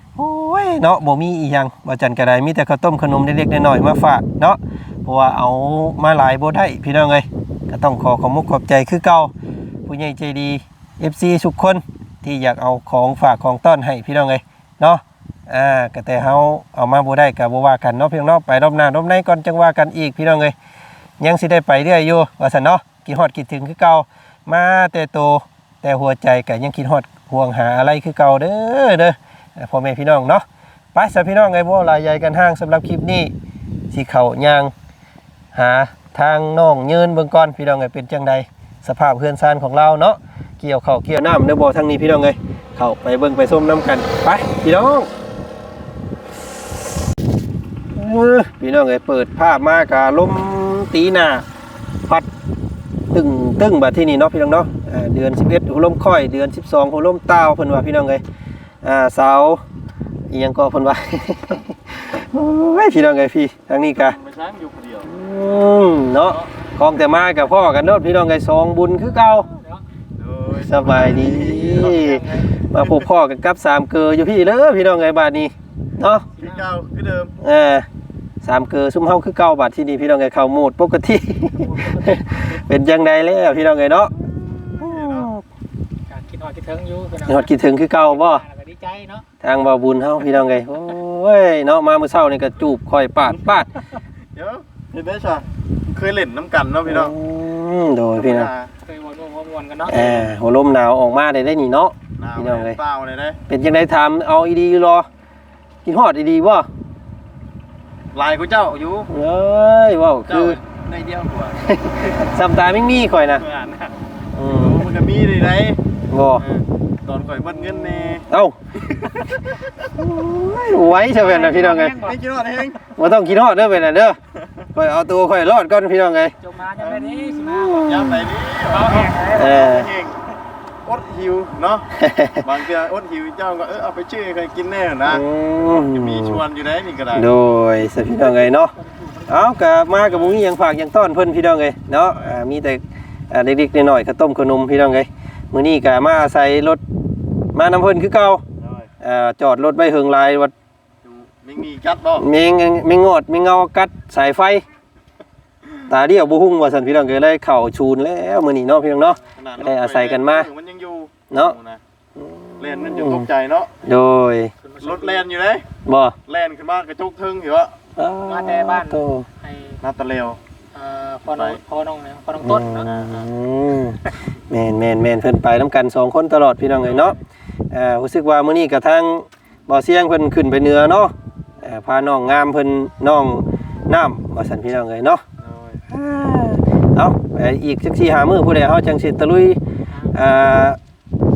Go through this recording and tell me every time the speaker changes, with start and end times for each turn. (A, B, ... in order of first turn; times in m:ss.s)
0:00.2-0:09.3 A
0:09.9-0:20.6 A
0:21.2-0:33.3 A
0:33.9-0:34.7 A
0:35.5-0:45.1 A
0:47.9-0:51.4 A
0:53.1-0:58.2 A
0:58.8-0:59.6 A
1:00.3-1:04.2 A
1:03.9-1:05.1 B
1:05.0-1:09.5 A
1:09.5-1:09.8 C
1:10.2-1:12.2 B
1:10.6-1:16.3 A
1:10.9-1:12.5 C
1:16.4-1:16.7 C
1:16.4-1:17.3 B
1:17.4-1:17.9 A
1:18.4-1:25.4 A
1:21.6-1:22.6 C
1:24.8-1:25.3 B
1:26.1-1:29.2 C
1:27.3-1:28.4 A
1:29.4-1:33.7 A
1:34.4-1:37.1 B
1:36.9-1:38.5 A
1:38.2-1:38.7 B
1:38.8-1:40.3 C
1:39.9-1:42.8 A
1:42.2-1:43.4 B
1:43.5-1:45.1 A
1:45.8-1:46.7 A
1:48.1-1:49.1 B
1:49.1-1:50.6 A
1:50.3-1:52.2 B
1:51.7-1:53.4 A
1:53.4-1:54.0 B
1:54.4-1:54.8 A
1:54.5-1:55.8 B
1:56.1-1:56.4 A
1:56.4-1:58.3 B
1:57.8-1:58.6 A
1:58.8-1:59.7 B
1:59.9-2:02.1 A
2:01.1-2:02.2 C
2:02.0-2:02.8 B
2:03.0-2:04.2 A
2:04.4-2:04.6 B
2:04.7-2:06.4 A
2:06.4-2:08.0 C
2:06.8-2:07.2 B
2:07.4-2:08.3 A
2:07.8-2:10.2 B
2:08.7-2:09.6 C
2:09.3-2:09.9 A
2:10.8-2:11.9 B
2:12.0-2:12.5 A
2:12.4-2:17.3 B
2:15.0-2:16.4 A
2:17.1-2:18.7 A
2:18.2-2:19.6 C
2:19.3-2:26.8 A
2:20.0-2:20.4 B
2:27.5-2:28.4 A
2:28.6-2:28.9 B
2:29.0-2:30.5 A
2:31.0-2:32.3 B
2:32.2-2:34.6 A
2:35.9-2:40.5 A
2:39.4-2:41.8 B
2:41.3-2:41.6 A
2:42.2-2:43.3 A
2:42.6-2:43.7 B
2:43.8-2:44.5 A
2:44.6-2:45.3 C
2:44.8-2:45.7 B
2:45.9-2:46.2 A
2:46.3-2:47.8 B
2:48.0-2:49.3 A
2:48.3-2:49.8 C
2:49.8-2:50.4 B
2:50.7-2:52.9 C
2:51.3-2:51.6 B
2:52.4-2:57.2 A
2:52.7-2:53.3 B
2:56.8-2:57.2 C
2:57.7-3:05.2 A
3:05.4-3:05.8 B
3:05.9-3:09.6 A
3:09.9-3:10.2 C
3:10.1-3:10.8 A